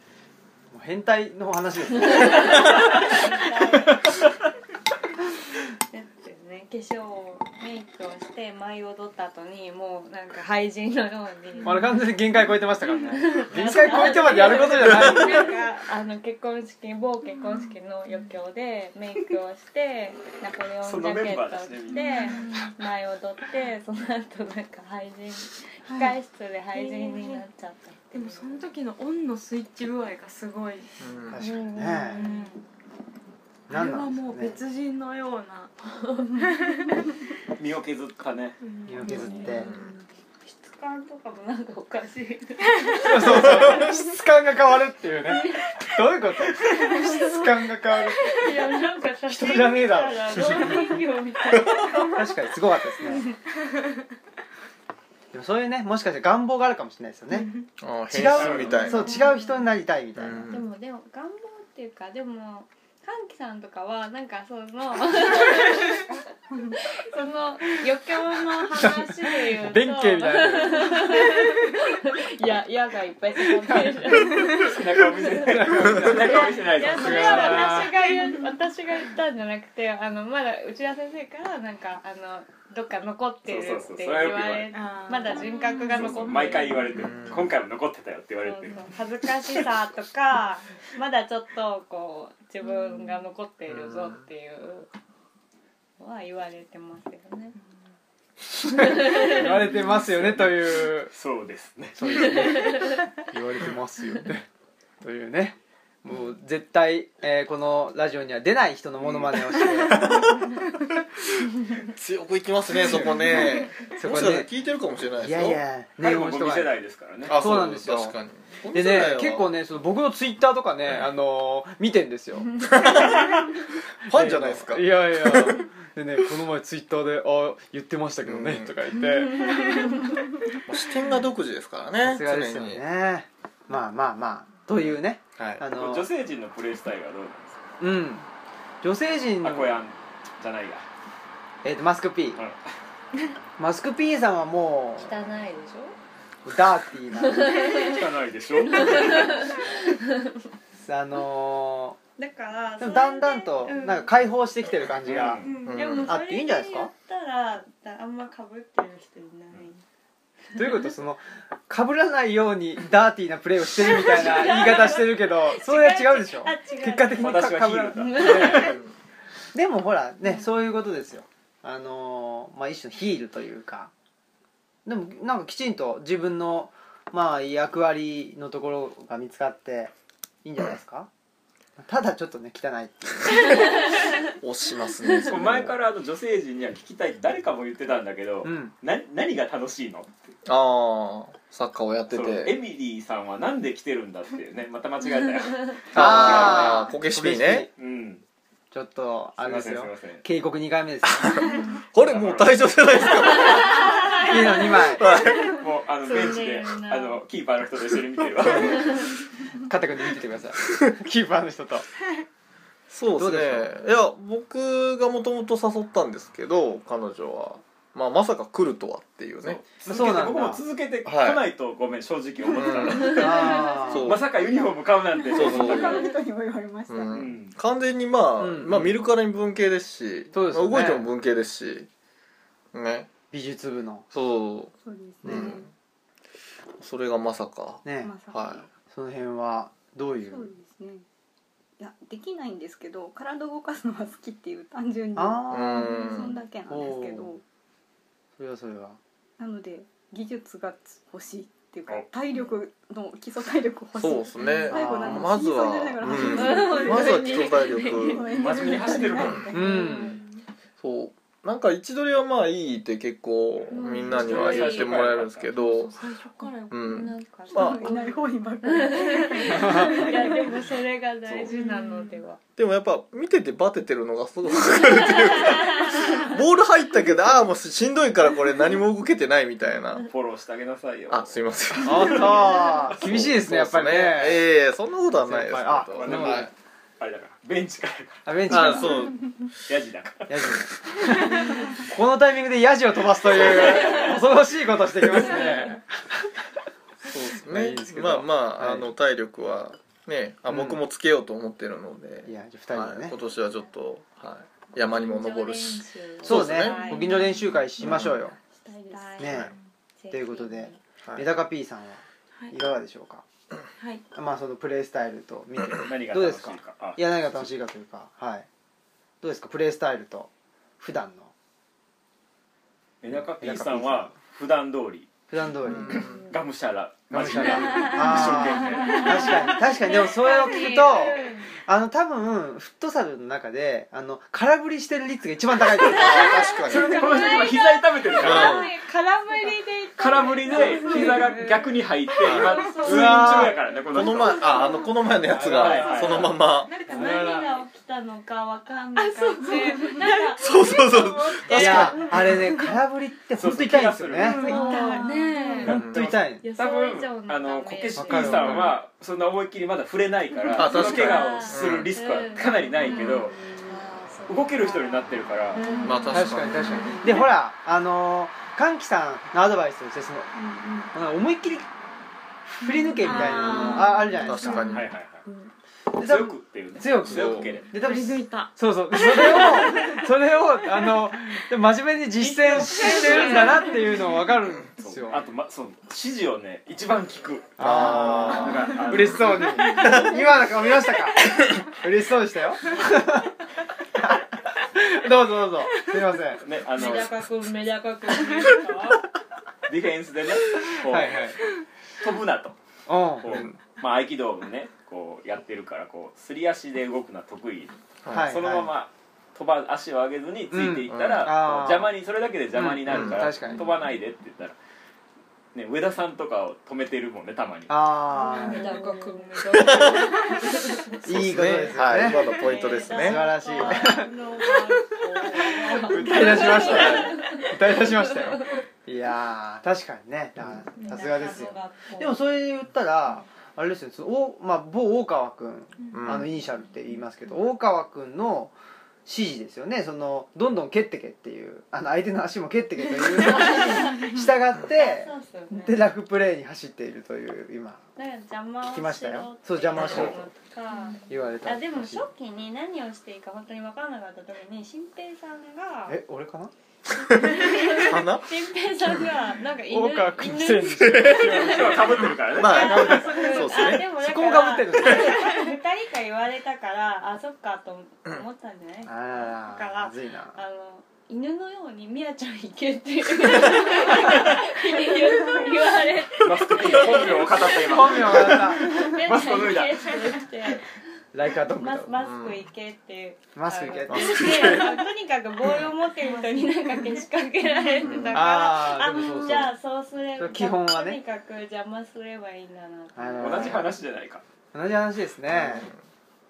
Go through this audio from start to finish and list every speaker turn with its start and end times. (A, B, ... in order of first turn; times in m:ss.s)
0:00.7-0:02.7 A
0:02.0-0:04.2 B
0:05.9-0:11.8 B
0:11.6-0:15.6 A
0:13.1-0:28.7 B
0:14.9-0:15.2 C
0:17.4-0:18.3 D
0:20.8-0:22.4 E
0:21.9-0:22.7 D
0:25.8-0:26.1 D
0:26.7-0:27.4 D
0:28.1-0:30.9 D
0:31.0-0:31.4 C
0:31.3-0:32.2 A
0:31.3-0:32.5 B
0:32.0-0:32.6 D
0:33.7-0:34.6 A
0:33.7-0:35.8 D
0:36.0-0:36.4 B
0:36.4-0:36.9 D
0:37.6-0:38.6 E
0:38.6-0:40.0 D
0:38.9-0:39.7 A
0:39.0-0:39.7 B
0:40.4-0:44.0 B
0:43.0-0:48.5 A
0:45.3-0:45.6 B
0:48.3-0:52.2 B
0:49.3-0:50.8 A
0:52.1-0:53.3 A
0:55.3-0:57.5 A
0:57.8-0:59.2 C
0:58.1-1:00.5 A
0:58.3-0:58.9 E
0:59.0-0:59.4 B
0:59.1-0:59.4 D
1:00.2-1:00.7 C
1:00.5-1:06.2 B
1:06.7-1:26.9 B
1:08.8-1:11.3 A
1:14.3-1:17.8 E
1:15.4-1:17.9 A
1:17.8-1:18.4 D
1:23.4-1:24.7 E
1:24.7-1:27.0 D
1:25.9-1:28.9 E
1:26.9-1:27.6 C
1:28.4-1:34.9 B
1:32.6-1:33.2 D
1:33.7-1:34.2 C
1:36.0-1:37.6 B
1:38.7-1:39.5 B
1:38.8-1:41.1 A
1:39.9-1:42.4 E
1:42.0-1:44.4 A
1:42.6-1:43.0 B
1:45.0-1:50.1 A
1:49.9-1:50.5 C
1:51.9-1:55.6 C
1:52.8-1:53.3 A
1:53.9-1:54.5 A
1:55.2-1:56.7 A
1:56.0-1:57.4 E
1:57.2-1:59.5 C
1:57.3-1:58.2 A
1:58.7-2:02.9 A
2:02.7-2:03.2 C
2:04.0-2:05.6 C
2:04.1-2:09.9 A
2:08.2-2:08.7 C
2:10.6-2:12.8 C
2:12.0-2:16.1 A
2:14.7-2:15.6 C
2:15.7-2:17.6 E
2:17.8-2:18.3 A
2:18.8-2:19.8 A
2:19.4-2:20.8 E
2:21.6-2:22.4 A
2:23.6-2:25.1 A
2:25.0-2:25.9 B
2:26.4-2:27.5 A
2:27.2-2:28.0 B
2:27.6-2:29.5 E
2:28.7-2:30.1 B
2:30.8-2:32.0 A
2:32.2-2:34.1 B
2:32.8-2:35.5 A
2:35.0-2:35.5 E
2:35.4-2:39.8 B
2:35.6-2:36.2 C
2:36.0-2:36.9 A
2:40.5-2:48.8 A
2:43.9-2:48.8 B
2:47.2-2:48.8 E
2:48.5-2:48.8 C
2:49.5-2:53.9 A
2:54.8-2:59.9 A
3:00.4-3:01.1 A
3:01.8-3:03.4 A
3:04.2-3:05.8 C
3:05.3-3:10.3 E
3:08.4-3:08.7 A
3:10.4-3:12.6 C
3:12.1-3:16.8 E
3:15.9-3:17.7 C
3:15.9-3:17.7 A
3:17.8-3:18.2 E
3:18.7-3:21.4 A
3:19.4-3:20.2 E
3:21.1-3:25.6 C
3:22.0-3:23.1 E
3:24.2-3:25.1 A
3:25.6-3:29.1 E
3:26.0-3:27.2 B
3:28.4-3:29.0 C
3:29.6-3:31.9 A
3:32.9-3:39.6 C
3:33.2-3:33.7 A
3:39.4-3:46.0 E
3:39.8-3:40.6 A
3:41.0-3:41.4 C
3:42.5-3:44.2 C
3:43.0-3:44.0 A
3:45.3-3:47.2 F
3:45.3-3:46.0 C
3:46.9-3:51.9 C
3:47.1-3:47.5 E
3:48.4-3:48.9 A
3:50.3-3:51.0 A
3:52.7-3:53.1 C
3:53.3-3:54.0 A
3:54.1-3:54.7 C
3:54.8-3:55.7 F
3:55.2-3:55.6 C
3:55.2-3:55.5 A
3:56.8-3:58.6 C
3:57.8-3:58.1 A
3:58.0-3:58.7 F
3:58.9-4:00.5 A
4:00.2-4:01.0 F
4:01.8-4:07.4 F
4:05.2-4:05.9 A
4:05.5-4:06.4 C
4:06.7-4:07.3 A
4:08.4-4:09.0 A
4:09.4-4:20.2 F
4:14.0-4:18.2 C
4:14.7-4:15.3 A
4:16.1-4:18.3 B
4:18.3-4:19.5 E
4:19.2-4:19.5 C
4:19.5-4:20.2 A
4:19.5-4:20.2 B
4:20.8-4:26.0 C
4:23.7-4:25.1 B
4:24.0-4:25.5 E
4:25.5-4:27.1 D
4:26.7-4:27.9 C
4:26.8-4:32.4 B
4:27.5-4:30.6 F
4:31.4-4:32.2 D
4:32.6-4:40.1 C
4:40.1-4:42.5 E
4:41.1-4:46.5 C
4:41.8-4:44.4 A
4:45.1-4:46.5 A
4:45.9-4:48.7 E
4:48.2-4:49.0 A
4:48.5-4:49.3 C
4:49.6-4:51.1 E
4:50.3-4:56.3 A
4:53.3-4:54.2 E
4:57.1-5:07.0 C
4:57.3-4:58.9 A
5:00.5-5:00.8 A
5:02.2-5:03.2 A
5:04.8-5:07.2 B
5:06.2-5:08.4 A
5:07.8-5:08.2 C
5:08.5-5:09.2 F
5:08.9-5:09.5 B
5:09.2-5:09.5 A
5:09.2-5:09.5 C
5:10.0-5:10.8 B
5:10.1-5:13.2 A
5:13.8-5:14.0 D
5:14.1-5:18.5 A
5:15.8-5:17.1 E
5:19.2-5:20.3 A
5:20.8-5:21.3 A
5:23.0-5:25.1 E
5:23.4-5:24.1 A
5:25.3-5:26.1 A
5:25.6-5:26.3 C
5:25.9-5:29.4 E
5:27.1-5:36.3 A
5:27.5-5:31.5 B
5:35.8-5:37.1 C
5:35.8-5:44.8 B
5:36.1-5:38.6 E
5:38.2-5:38.7 C
5:40.0-5:44.5 E
5:40.5-5:41.6 D
5:42.2-5:42.6 C
5:42.8-5:43.6 A
5:43.9-5:46.7 C
5:45.3-5:46.3 A
5:45.4-5:46.4 E
5:46.6-5:47.6 D
5:46.8-5:52.3 B
5:49.0-5:52.4 D
5:50.4-5:52.4 C
5:51.5-5:54.5 A
5:53.4-5:54.6 E
5:54.2-5:55.7 D
5:54.4-5:55.7 B
5:54.5-5:55.1 F
5:55.6-6:03.3 E
5:55.6-5:56.4 A
5:55.6-5:56.1 C
5:56.4-5:58.5 B
5:58.0-5:58.7 A
5:58.2-5:58.7 C
6:00.5-6:06.4 B
6:00.5-6:01.9 C
6:02.8-6:03.2 D
6:03.0-6:03.8 F
6:04.3-6:05.6 E
6:05.6-6:06.1 F
6:05.6-6:05.9 D
6:05.8-6:06.9 C
6:06.1-6:10.3 A
6:06.6-6:07.1 D
6:06.7-6:07.2 F
6:10.9-6:11.7 A
6:12.5-6:14.6 A
6:12.6-6:14.7 D
6:14.2-6:14.9 C
6:14.7-6:15.2 E
6:15.9-6:25.2 A
6:16.0-6:17.8 E
6:17.0-6:17.5 C
6:17.7-6:20.0 D
6:22.2-6:23.8 B
6:22.6-6:23.8 D
6:24.8-6:29.8 E
6:27.6-6:33.3 A
6:27.6-6:30.1 C
6:34.0-6:36.4 A
6:36.4-6:37.1 E
6:36.7-6:39.0 B
6:39.7-6:41.3 E
6:40.8-6:41.4 A
6:42.0-6:42.6 E
6:42.9-6:43.4 A
6:43.2-6:54.6 E
6:43.3-6:43.5 C
6:48.0-6:48.3 C
6:48.1-6:48.7 A
6:50.5-6:51.9 A
6:50.9-6:51.4 C
6:52.6-6:53.6 A
6:52.8-6:53.3 C
6:55.5-6:57.9 E
6:57.7-6:58.7 A
6:58.2-7:00.2 D
6:58.2-7:00.8 B
6:59.5-7:00.3 C
7:01.0-7:02.4 A
7:01.0-7:03.7 C
7:02.0-7:08.6 B
7:02.9-7:04.1 A
7:05.8-7:18.5 A
7:06.1-7:07.2 C
7:10.8-7:12.2 B
7:15.9-7:16.3 C
7:19.0-7:27.8 A
7:23.1-7:25.8 B
7:28.0-7:36.0 B
7:28.6-7:30.3 A
7:29.7-7:30.2 E
7:30.7-7:31.0 D
7:31.1-7:32.1 A
7:35.9-7:36.5 A
7:37.0-8:00.7 B
7:37.1-7:39.0 C
7:39.7-7:45.2 A
7:40.7-7:43.9 C
7:41.1-7:43.0 E
7:48.8-7:50.4 A
7:56.2-8:00.0 E
7:57.6-7:58.8 A
8:01.1-8:01.9 A
8:01.6-8:13.6 B
8:02.0-8:02.4 C
8:03.3-8:04.6 A
8:03.9-8:04.8 C
8:06.0-8:07.0 D
8:07.6-8:07.9 D
8:07.8-8:08.3 C
8:08.1-8:09.5 A
8:10.2-8:11.0 A
8:12.9-8:13.7 A
8:13.2-8:14.2 E
8:14.5-8:15.7 A
8:15.3-8:15.8 C